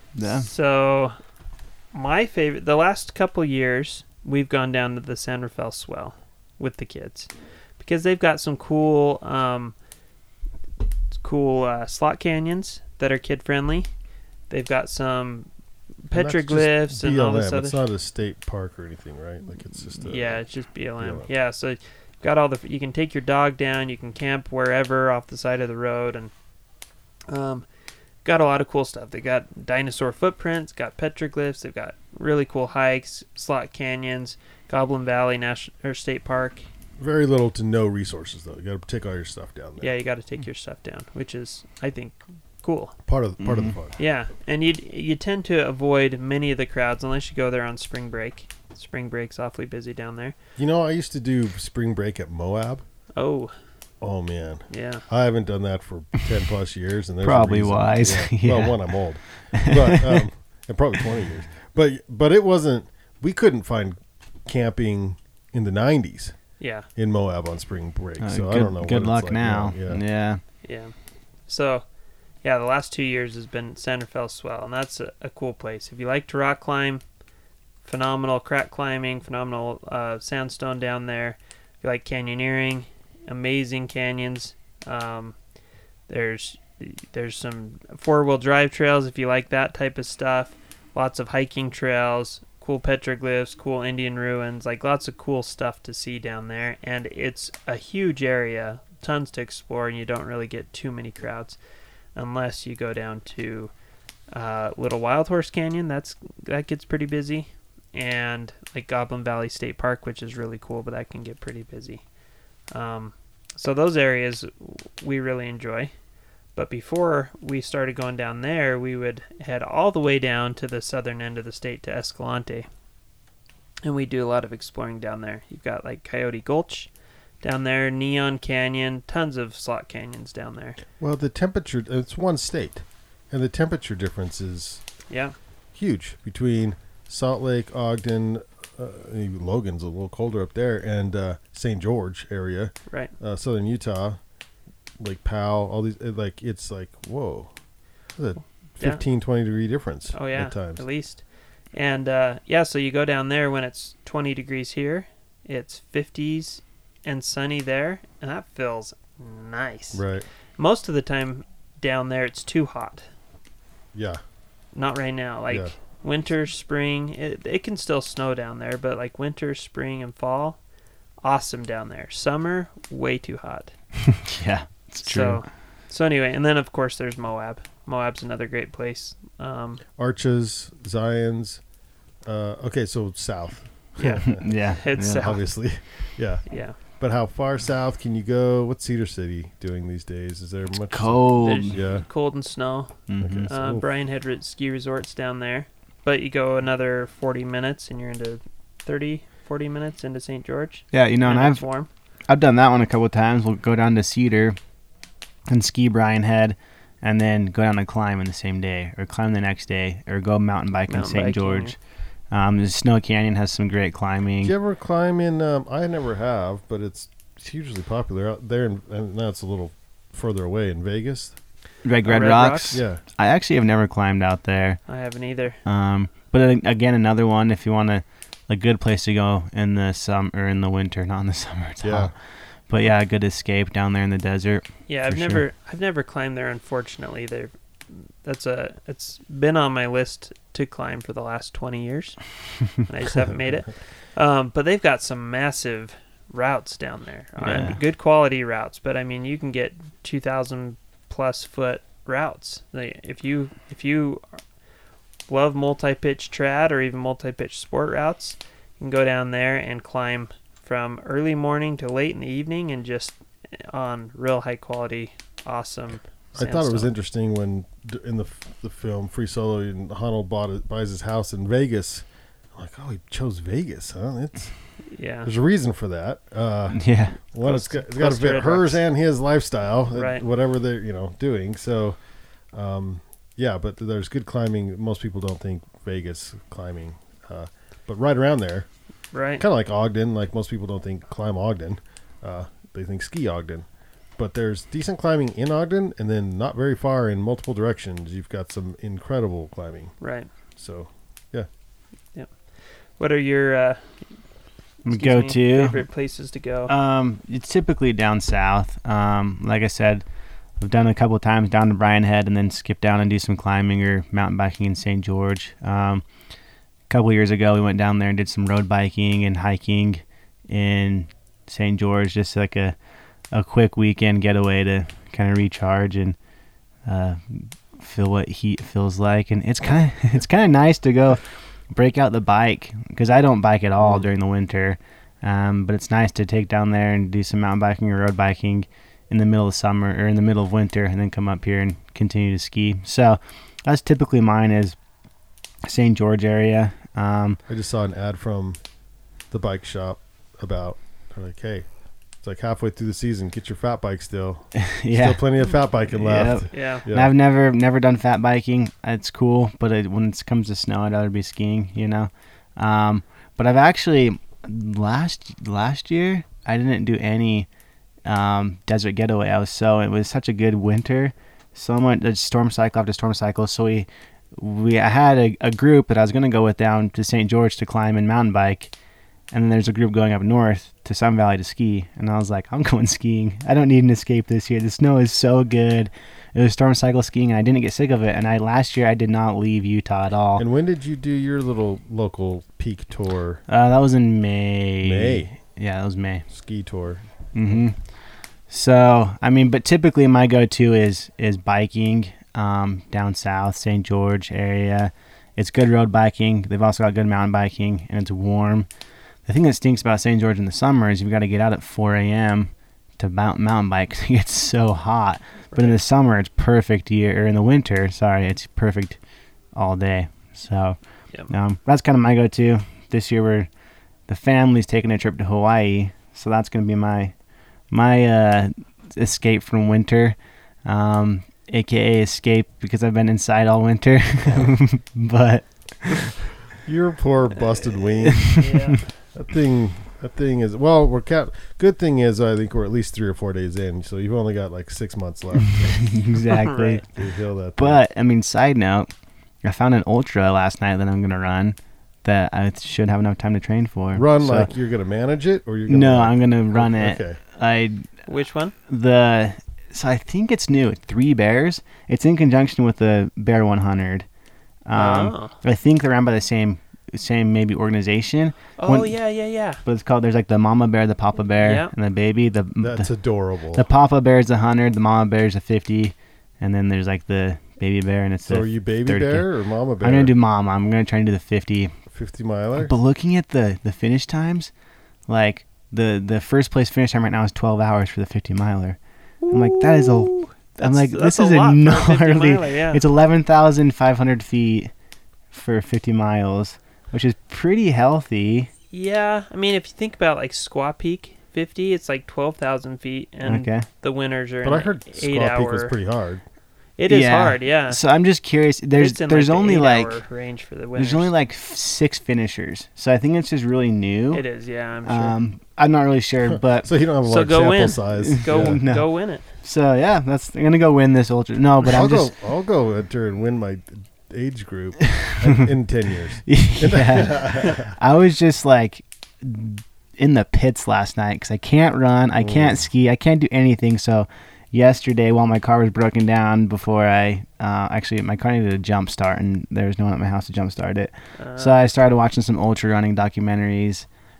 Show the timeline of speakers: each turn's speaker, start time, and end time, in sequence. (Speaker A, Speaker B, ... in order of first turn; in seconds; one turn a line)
Speaker A: 0.1-0.5
Speaker B: 0.2-1.1
Speaker B: 1.9-9.8
Speaker B: 11.1-13.9
Speaker B: 14.5-15.5
Speaker B: 16.1-17.8
Speaker C: 16.1-20.4
Speaker B: 20.0-26.3
Speaker C: 21.0-21.3
Speaker B: 27.3-27.6
Speaker B: 28.2-36.7
Speaker C: 37.0-39.9
Speaker B: 39.8-43.0
Speaker C: 43.1-44.0
Speaker A: 43.4-43.8
Speaker B: 44.0-50.4
Speaker C: 50.6-52.8
Speaker B: 53.2-53.5
Speaker C: 54.0-66.4
Speaker B: 54.7-55.0
Speaker A: 57.2-58.8
Speaker A: 59.5-60.2
Speaker B: 66.6-66.9
Speaker C: 67.0-70.0
Speaker A: 68.2-70.4
Speaker B: 70.6-70.9
Speaker B: 71.5-71.8
Speaker B: 72.4-77.0
Speaker B: 77.8-85.4
Speaker B: 86.1-101.6
Speaker B: 102.2-103.7
Speaker B: 104.3-112.0
Speaker B: 112.7-115.9
Speaker B: 116.6-122.7
Speaker B: 123.8-126.9
Speaker B: 127.4-130.8
Speaker C: 131.0-134.8
Speaker B: 135.1-135.3
Speaker C: 135.8-144.2
Speaker C: 145.0-147.5
Speaker C: 148.2-150.8
Speaker B: 150.1-151.2
Speaker B: 151.7-160.0
Speaker C: 159.9-160.3
Speaker B: 160.6-163.0
Speaker C: 163.9-164.2
Speaker B: 164.8-170.6
Speaker B: 171.2-173.7
Speaker A: 174.1-175.4
Speaker B: 175.0-179.8
Speaker C: 180.0-181.6
Speaker C: 182.2-184.5
Speaker B: 184.0-185.4
Speaker A: 184.2-185.3
Speaker C: 185.0-186.4
Speaker B: 186.5-186.8
Speaker C: 187.0-192.1
Speaker A: 190.9-191.8
Speaker B: 191.4-201.9
Speaker A: 193.1-193.5
Speaker C: 193.2-193.8
Speaker A: 200.9-201.7
Speaker A: 202.3-204.6
Speaker A: 205.5-211.8
Speaker B: 210.9-211.8
Speaker A: 212.3-214.5
Speaker C: 214.4-221.4
Speaker A: 221.8-224.8
Speaker B: 222.1-222.8
Speaker C: 222.7-223.0
Speaker B: 224.9-225.6
Speaker A: 225.7-232.1
Speaker C: 231.8-232.1
Speaker A: 232.7-235.4
Speaker B: 234.9-254.4
Speaker C: 247.4-247.7
Speaker A: 247.4-247.8
Speaker B: 255.3-266.9
Speaker C: 266.4-274.5
Speaker B: 274.9-275.3
Speaker C: 275.2-282.0
Speaker A: 276.7-277.2
Speaker B: 277.4-278.8
Speaker B: 279.9-280.2
Speaker C: 282.5-288.7
Speaker B: 289.1-289.4
Speaker C: 289.4-293.7
Speaker C: 294.2-299.9
Speaker B: 300.0-300.3
Speaker C: 300.6-301.5
Speaker B: 303.0-303.9
Speaker A: 304.9-305.8
Speaker B: 304.9-306.7
Speaker A: 306.7-310.0
Speaker A: 310.6-316.0
Speaker A: 316.9-322.8
Speaker A: 323.3-326.2
Speaker A: 326.9-344.8
Speaker C: 333.8-334.1
Speaker A: 345.6-347.4
Speaker C: 347.5-348.6
Speaker C: 349.3-351.7
Speaker C: 352.2-357.1
Speaker A: 354.6-355.2
Speaker A: 355.9-367.5
Speaker B: 356.5-356.9
Speaker A: 368.1-378.7
Speaker A: 379.3-390.4
Speaker C: 390.4-393.4
Speaker A: 393.5-396.3
Speaker C: 394.8-395.4
Speaker C: 396.3-397.6
Speaker A: 397.3-397.8
Speaker A: 398.5-408.7
Speaker A: 409.3-419.0
Speaker A: 419.6-423.5
Speaker A: 424.1-427.1
Speaker A: 427.7-436.1
Speaker C: 436.6-438.4
Speaker A: 438.1-438.8
Speaker B: 438.3-438.9
Speaker C: 439.1-445.9
Speaker A: 445.6-446.8
Speaker B: 446.3-446.8
Speaker C: 446.9-447.8
Speaker A: 447.6-448.9
Speaker A: 449.4-454.5
Speaker C: 453.9-457.2
Speaker A: 455.7-457.9
Speaker B: 458.1-458.6
Speaker A: 458.7-464.1
Speaker A: 464.7-469.0
Speaker B: 464.8-465.4
Speaker B: 468.6-469.6
Speaker A: 469.6-472.9
Speaker B: 471.4-471.7
Speaker C: 472.6-473.6
Speaker A: 473.5-479.3
Speaker C: 478.3-480.1
Speaker A: 479.8-481.7
Speaker C: 481.9-482.7
Speaker A: 482.6-484.5
Speaker A: 485.1-488.8
Speaker B: 489.2-492.8
Speaker A: 489.3-494.7
Speaker A: 495.3-498.5
Speaker B: 498.7-505.7
Speaker A: 503.2-503.7
Speaker C: 504.4-506.2
Speaker B: 506.8-507.8
Speaker A: 506.9-510.0
Speaker B: 508.8-511.1
Speaker A: 510.8-514.2
Speaker B: 514.1-515.1
Speaker A: 514.9-516.7
Speaker C: 516.6-518.6
Speaker B: 517.0-519.2
Speaker A: 518.0-522.1
Speaker C: 521.6-527.7
Speaker A: 524.9-525.4
Speaker A: 526.3-543.9
Speaker C: 532.2-532.6
Speaker B: 541.2-541.6